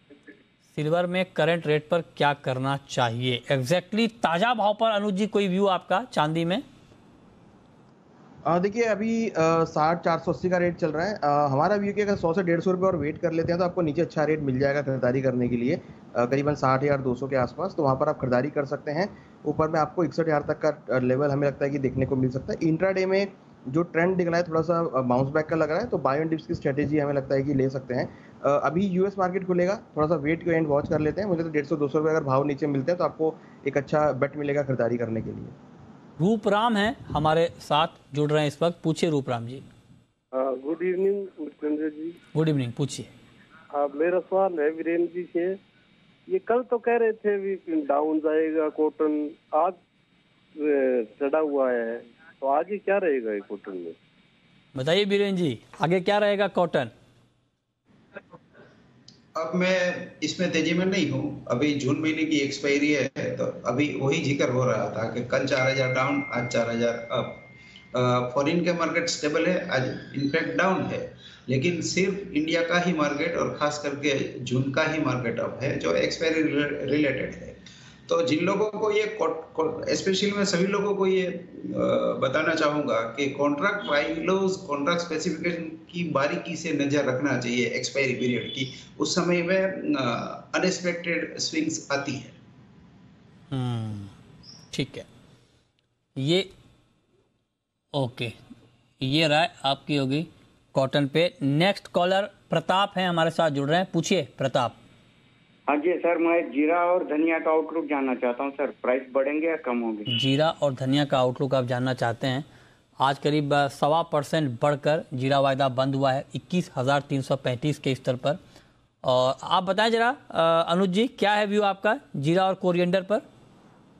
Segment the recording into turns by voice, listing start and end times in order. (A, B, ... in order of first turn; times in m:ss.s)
0:00.8-0:06.6 A
0:08.5-0:35.5 B
0:36.2-0:39.6 A
0:40.3-0:42.2 C
0:42.3-0:43.1 A
0:43.7-0:45.6 C
0:46.3-0:49.8 C
0:50.6-0:54.0 C
0:54.8-0:56.9 A
0:59.4-1:32.4 D
1:33.5-1:34.1 A
1:34.7-1:35.1 A
1:36.2-1:36.5 A
1:37.9-1:38.4 A
1:39.0-1:44.8 A
1:45.7-1:50.1 E
1:50.1-1:52.5 A
1:53.0-1:58.4 A
1:59.0-2:03.2 A